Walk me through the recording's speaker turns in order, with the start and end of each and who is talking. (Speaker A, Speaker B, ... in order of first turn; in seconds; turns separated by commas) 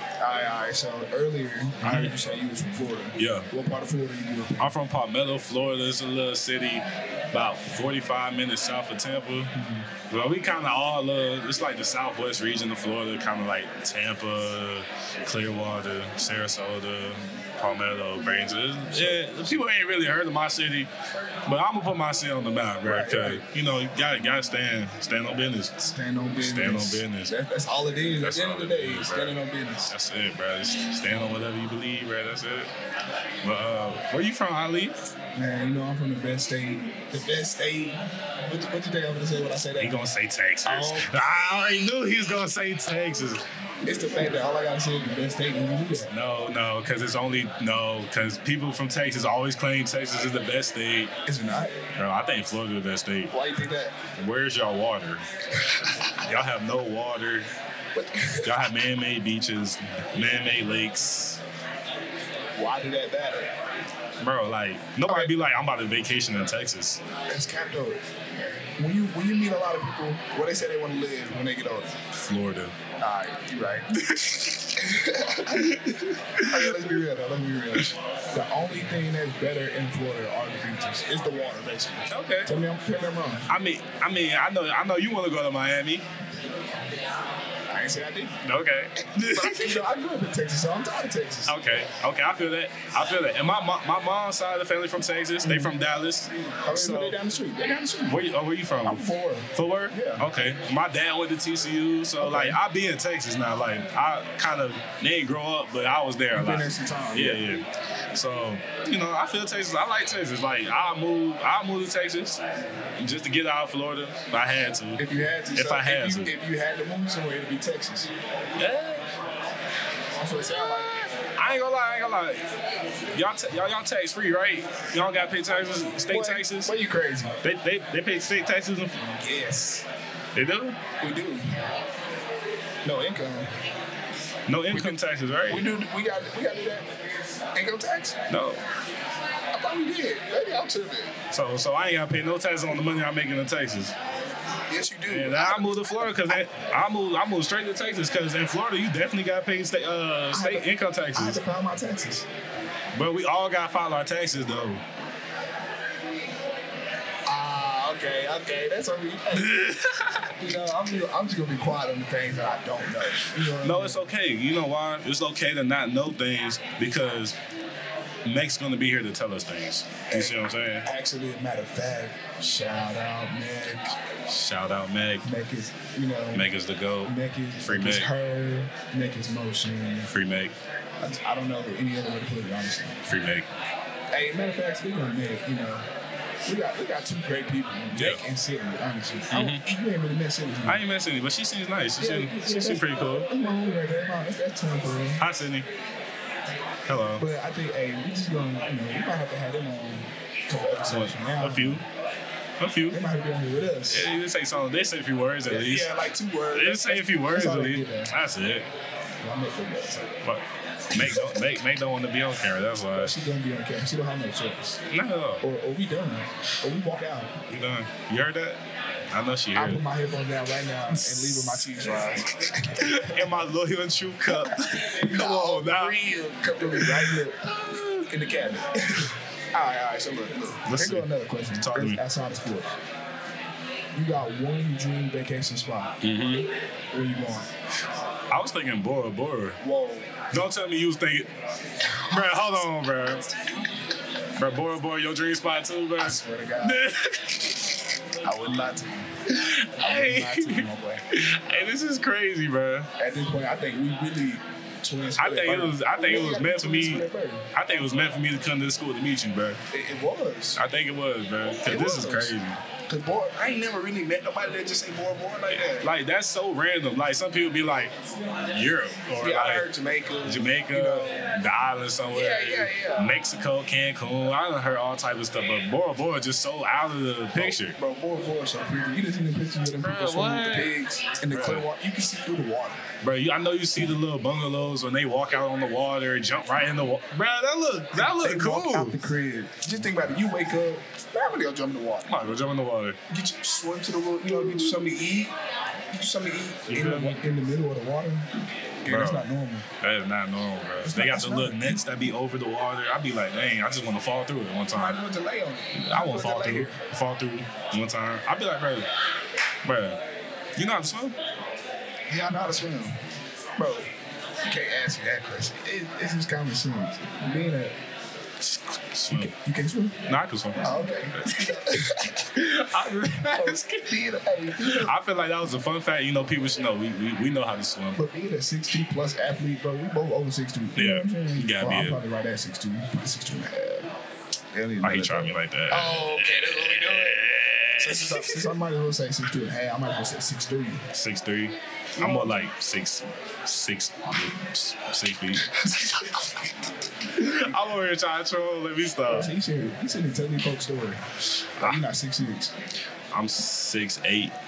Speaker A: 0.2-4.7, Speaker B: 1.8-2.1, Speaker B: 3.2-3.5, Speaker B: 4.6-9.5, Speaker A: 9.5-9.9, Speaker B: 10.1-20.9, Speaker A: 18.9-19.5, Speaker B: 21.4-27.3, Speaker A: 22.8-23.4, Speaker A: 25.9-29.9, Speaker B: 28.2-32.7, Speaker B: 33.4-35.0, Speaker A: 35.3-40.0, Speaker B: 39.8-43.4, Speaker A: 40.6-41.1, Speaker A: 43.8-46.1, Speaker B: 46.1-51.1, Speaker A: 51.2-51.8, Speaker B: 52.0-53.3, Speaker A: 53.3-54.0, Speaker B: 54.1-55.2, Speaker A: 55.6-55.9, Speaker B: 56.2-57.5, Speaker A: 57.9-58.6, Speaker B: 58.4-61.4, Speaker A: 62.5-63.5, Speaker B: 64.2-67.0, Speaker A: 65.0-65.3, Speaker A: 67.3-71.9, Speaker B: 72.2-72.7, Speaker A: 73.0-73.9, Speaker B: 73.9-74.8, Speaker A: 74.8-75.8, Speaker B: 75.5-77.0, Speaker A: 76.4-83.5, Speaker B: 82.1-82.5, Speaker B: 83.5-86.1, Speaker A: 87.7-88.4, Speaker B: 88.4-89.8, Speaker A: 89.1-91.6, Speaker B: 91.5-97.2, Speaker A: 95.4-95.7, Speaker A: 96.6-98.2, Speaker B: 98.1-112.4, Speaker A: 98.8-100.2, Speaker A: 102.2-102.6, Speaker A: 106.3-107.4, Speaker B: 113.0-116.3, Speaker A: 115.0-118.1, Speaker B: 118.5-119.1, Speaker A: 120.2-121.0, Speaker B: 121.3-122.5, Speaker B: 123.1-126.7, Speaker A: 126.1-127.4, Speaker B: 127.4-129.0, Speaker A: 129.0-129.8, Speaker B: 130.3-130.8, Speaker A: 131.0-131.6, Speaker A: 132.8-133.5, Speaker B: 134.5-135.7, Speaker A: 134.7-136.9, Speaker A: 137.5-138.2, Speaker B: 138.3-138.6, Speaker A: 139.5-141.1, Speaker B: 141.3-143.9, Speaker A: 144.7-146.4, Speaker B: 145.1-151.4, Speaker A: 150.3-152.3, Speaker B: 152.9-154.8, Speaker A: 157.3-159.5, Speaker B: 159.3-160.3, Speaker A: 160.4-164.1, Speaker B: 163.6-167.4, Speaker B: 168.2-170.8, Speaker A: 170.1-173.9, Speaker B: 174.3-175.3, Speaker A: 175.2-176.4, Speaker B: 176.3-178.1, Speaker A: 177.0-180.1, Speaker B: 180.1-180.5, Speaker A: 181.0-183.0, Speaker B: 183.1-183.5, Speaker A: 184.1-185.8, Speaker A: 186.4-190.8, Speaker B: 187.9-188.2, Speaker B: 189.3-189.6, Speaker B: 190.7-193.3, Speaker A: 192.0-195.2, Speaker B: 195.2-195.7, Speaker B: 196.9-197.2, Speaker A: 197.2-201.8, Speaker B: 200.9-201.8, Speaker B: 202.6-203.0, Speaker A: 202.9-204.1, Speaker B: 203.9-205.9, Speaker A: 205.5-208.1, Speaker B: 206.5-208.7, Speaker A: 209.2-210.2, Speaker B: 210.2-213.1, Speaker A: 210.9-211.4, Speaker A: 212.9-214.8, Speaker B: 214.8-215.4, Speaker A: 215.4-217.3, Speaker B: 217.5-219.8, Speaker A: 219.5-223.3, Speaker B: 220.9-221.7, Speaker B: 222.8-226.0, Speaker A: 224.3-232.7, Speaker B: 226.6-228.1, Speaker B: 230.6-232.0, Speaker A: 233.9-235.9, Speaker B: 236.0-236.5, Speaker A: 236.9-237.5, Speaker B: 238.3-239.6, Speaker A: 239.6-240.1, Speaker B: 240.3-241.3, Speaker A: 242.0-243.5, Speaker B: 242.1-243.2, Speaker B: 244.4-247.5, Speaker A: 246.0-246.8, Speaker A: 248.2-249.1, Speaker B: 249.3-252.9, Speaker A: 249.8-251.0, Speaker A: 253.0-257.5, Speaker B: 255.2-259.6, Speaker A: 259.7-260.6, Speaker B: 260.6-262.6, Speaker A: 261.6-262.3, Speaker A: 262.9-265.9, Speaker B: 265.7-267.9, Speaker B: 268.5-269.6, Speaker A: 269.2-271.3, Speaker B: 270.2-277.8, Speaker A: 272.1-273.2, Speaker A: 277.3-282.8, Speaker B: 279.8-280.7, Speaker B: 281.3-281.6, Speaker B: 283.0-289.1, Speaker A: 287.9-292.1, Speaker B: 292.1-293.0, Speaker A: 293.1-295.3, Speaker A: 295.9-298.3, Speaker B: 296.7-297.2, Speaker A: 298.8-299.6, Speaker B: 298.9-299.2, Speaker B: 299.8-305.0, Speaker A: 300.8-301.8, Speaker A: 304.7-306.8, Speaker B: 305.7-308.9, Speaker B: 309.6-310.0, Speaker B: 310.6-311.1, Speaker A: 312.1-313.0, Speaker A: 313.6-313.9, Speaker A: 314.4-317.8, Speaker B: 318.4-319.3, Speaker A: 319.1-320.0, Speaker B: 320.1-321.6, Speaker A: 320.6-322.4, Speaker B: 322.3-323.9, Speaker A: 323.3-324.9, Speaker B: 324.5-328.0, Speaker A: 327.9-333.9, Speaker B: 330.7-332.0, Speaker A: 334.5-337.2, Speaker B: 334.8-338.5, Speaker A: 337.8-340.8, Speaker B: 340.9-346.2, Speaker A: 342.0-342.4, Speaker A: 345.4-346.4, Speaker B: 347.1-349.3, Speaker A: 349.1-351.0, Speaker B: 351.6-351.8, Speaker A: 351.6-352.5, Speaker B: 353.1-354.3